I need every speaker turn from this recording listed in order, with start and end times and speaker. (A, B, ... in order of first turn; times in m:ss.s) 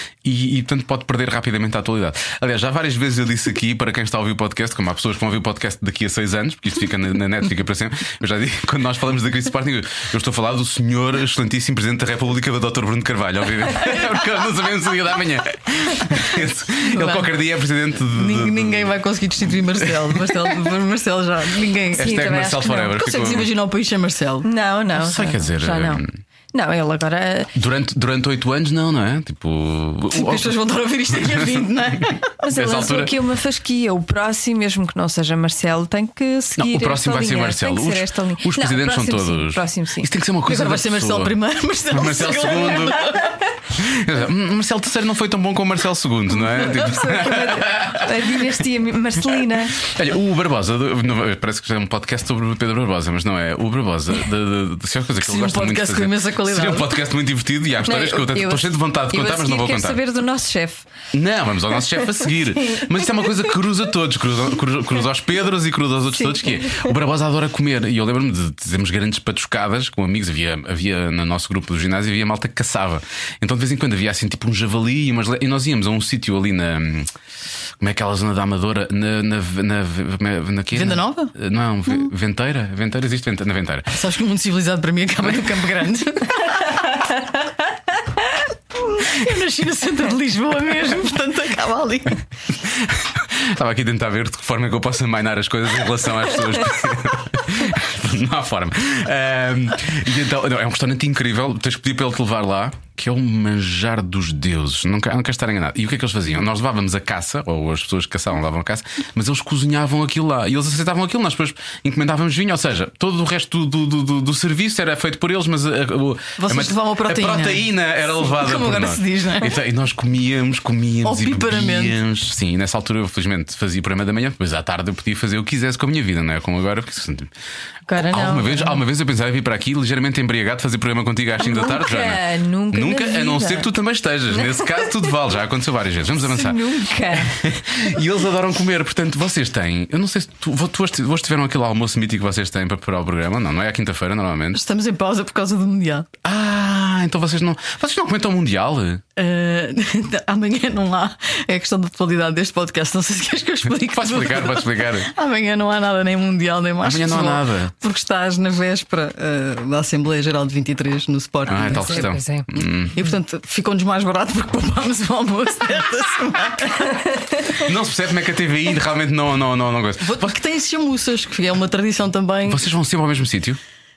0:00.2-0:19.0 A
0:16.8-0:17.3 B
0:18.1-0:22.2 B
0:19.8-0:20.5 A
0:22.0-0:23.0 C
0:22.0-0:23.5 A
0:23.0-0:24.5 B
0:24.4-0:27.5 C
0:25.0-0:26.2 A
0:27.6-0:30.6 A
0:30.1-0:32.4 B
0:31.2-0:32.0 A
0:32.4-0:40.1 C
0:32.6-0:33.2 A
0:36.6-0:41.4 A
0:40.4-0:43.4 B
0:41.9-0:43.1 A
0:43.7-0:48.2 A
0:46.7-0:49.8 C
0:49.8-1:00.0 A
0:55.2-0:57.0 B
0:57.8-1:00.9 C
1:01.1-1:17.1 A
1:06.2-1:06.9 C
1:17.8-1:24.0 A
1:20.7-1:21.4 B
1:23.9-1:27.2 B
1:28.8-1:32.3 B
1:32.7-2:07.3 A
1:56.4-1:59.5 B
2:01.0-2:02.0 B
2:07.9-2:08.8 C
2:08.0-2:24.6 A
2:11.4-2:13.7 C
2:14.3-2:15.1 C
2:16.2-2:17.4 C
2:24.5-2:26.1 B
2:26.2-2:29.0 A
2:29.2-2:47.4 B
2:33.9-2:35.1 A
2:36.8-2:37.7 A
2:41.5-2:43.0 A
2:41.6-2:42.5 C
2:47.5-2:50.3 A
2:50.0-2:52.7 B
2:52.5-2:53.6 A